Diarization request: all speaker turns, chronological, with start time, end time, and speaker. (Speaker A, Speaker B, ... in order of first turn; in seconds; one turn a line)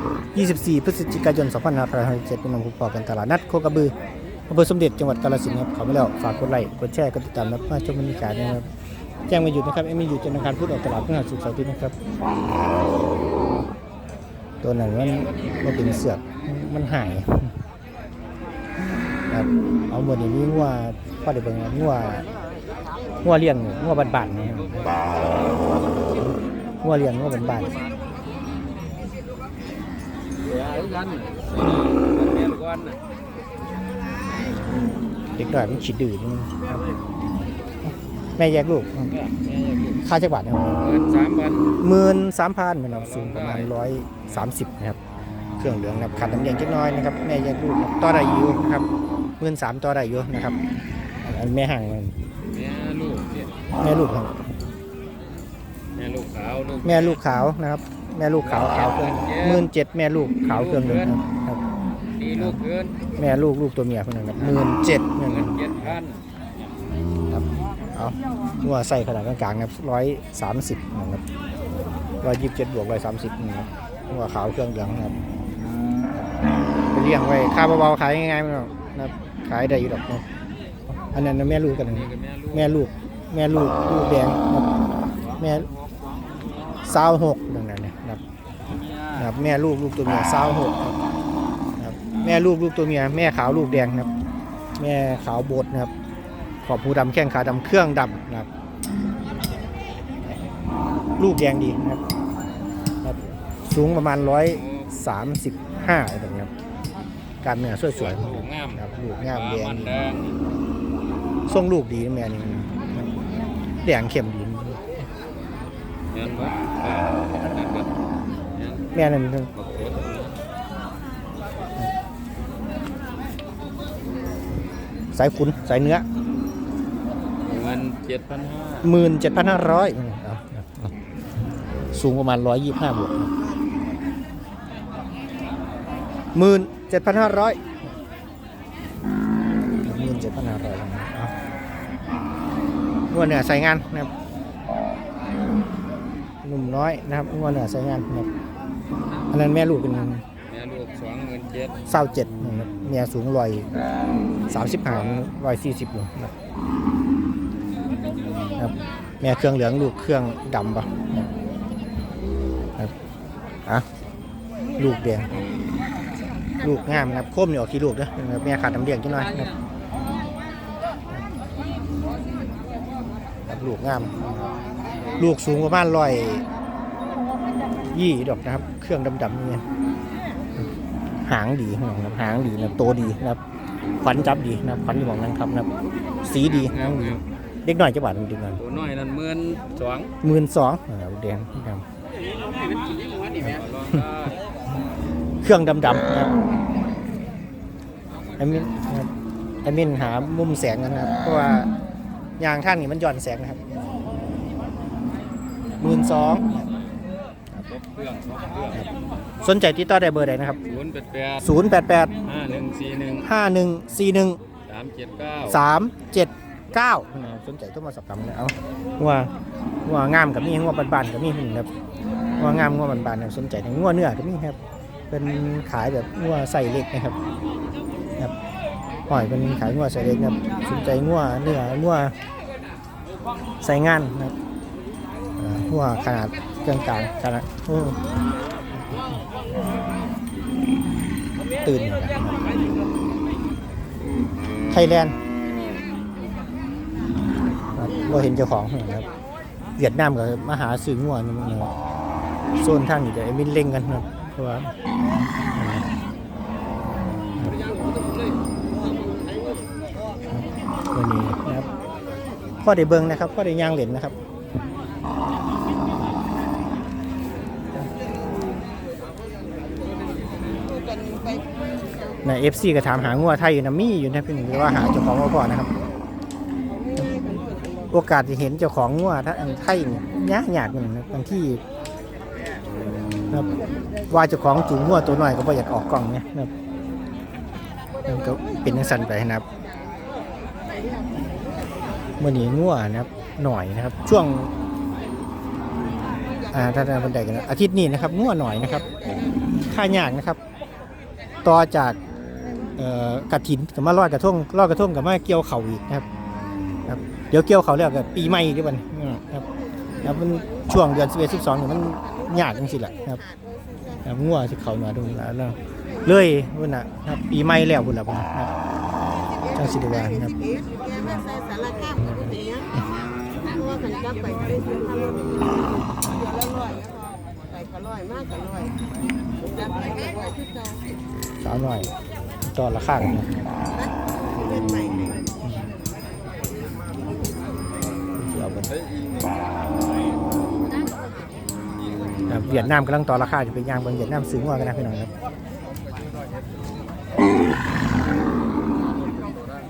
Speaker A: 0.3-3.9
Speaker A: 4.5-8.7
Speaker A: 9.3-11.9
Speaker A: 14.6-17.6
Speaker B: 15.2-15.6
Speaker A: 19.3-22.3
Speaker A: 23.2-25.0
Speaker B: 24.4-25.5
Speaker A: 26.8-27.7
Speaker B: 30.4-33.0
Speaker A: 35.4-36.8
Speaker A: 37.8-39.1
Speaker B: 39.1-40.0
Speaker A: 40.0-40.7
Speaker B: 40.8-41.8
Speaker A: 41.8-45.0
Speaker B: 42.9-43.8
Speaker A: 45.6-48.9
Speaker A: 49.4-50.6
Speaker A: 51.2-52.2
Speaker B: 52.5-53.6
Speaker A: 53.8-54.4
Speaker B: 56.0-57.2
Speaker A: 56.8-61.6
Speaker B: 58.4-59.7
Speaker B: 60.5-61.2
Speaker B: 62.2-63.0
Speaker A: 63.2-66.0
Speaker B: 65.2-66.2
Speaker A: 67.9-71.2
Speaker A: 72.2-75.1
Speaker A: 76.9-80.2
Speaker A: 81.0-84.7
Speaker B: 81.8-82.8
Speaker B: 85.3-86.8
Speaker A: 85.4-85.7
Speaker A: 86.9-88.2
Speaker B: 88.6-89.3
Speaker A: 89.2-91.0
Speaker A: 91.8-94.1
Speaker A: 94.8-95.9
Speaker A: 96.6-98.5
Speaker A: 101.2-102.0
Speaker A: 103.0-106.5
Speaker B: 104.4-104.9
Speaker A: 107.4-110.1
Speaker B: 107.9-110.4
Speaker A: 111.5-113.1
Speaker A: 113.8-114.8
Speaker B: 116.1-117.9
Speaker B: 118.5-118.9
Speaker A: 118.9-119.5
Speaker B: 119.5-120.4
Speaker A: 125.1-126.0
Speaker B: 127.5-128.9
Speaker A: 128.8-130.9
Speaker A: 131.9-133.3
Speaker A: 136.3-137.6
Speaker A: 139.8-141.3
Speaker A: 143.1-144.1
Speaker A: 146.4-148.3
Speaker A: 149.3-150.2
Speaker B: 150.4-151.8
Speaker A: 151.9-153.7
Speaker A: 154.5-156.3
Speaker B: 154.9-155.2
Speaker A: 158.6-161.1
Speaker A: 164.8-165.3
Speaker A: 166.6-169.5
Speaker A: 173.5-174.5
Speaker A: 175.2-176.4
Speaker A: 177.9-179.6
Speaker A: 181.2-183.4
Speaker A: 184.0-185.7
Speaker A: 186.2-188.6
Speaker B: 186.3-187.2
Speaker B: 188.6-190.1
Speaker A: 190.2-191.8
Speaker B: 193.3-194.4
Speaker A: 195.4-196.3
Speaker A: 198.4-199.1
Speaker A: 199.6-201.7
Speaker A: 202.4-203.6
Speaker A: 205.8-206.5
Speaker B: 207.7-208.8
Speaker A: 209.4-210.6
Speaker B: 210.7-211.5
Speaker A: 211.4-212.1
Speaker B: 212.2-213.3
Speaker A: 213.2-214.4
Speaker B: 214.7-215.6
Speaker A: 215.5-219.3
Speaker A: 219.8-221.7
Speaker A: 222.4-224.6
Speaker A: 225.1-227.2
Speaker A: 229.1-232.1
Speaker A: 233.6-234.3
Speaker A: 235.4-238.0
Speaker A: 241.6-242.5
Speaker A: 244.7-245.2
Speaker A: 247.8-249.1
Speaker A: 249.8-251.7
Speaker A: 252.6-254.7
Speaker A: 255.5-255.9
Speaker A: 260.3-261.7
Speaker A: 262.6-264.2
Speaker A: 272.2-275.7
Speaker A: 277.9-281.6
Speaker A: 284.1-286.5
Speaker A: 288.1-289.4
Speaker A: 292.2-294.5
Speaker A: 296.5-299.0
Speaker A: 299.6-300.4
Speaker A: 301.4-302.0
Speaker A: 302.8-306.1
Speaker A: 306.9-309.5
Speaker A: 310.0-313.2
Speaker A: 314.0-318.5
Speaker A: 319.5-320.5
Speaker C: 320.7-321.8
Speaker A: 321.9-322.6
Speaker C: 323.6-325.2
Speaker C: 327.8-328.2
Speaker A: 331.4-331.9
Speaker A: 332.4-333.3
Speaker A: 335.4-335.8
Speaker A: 338.2-338.7
Speaker A: 342.3-345.1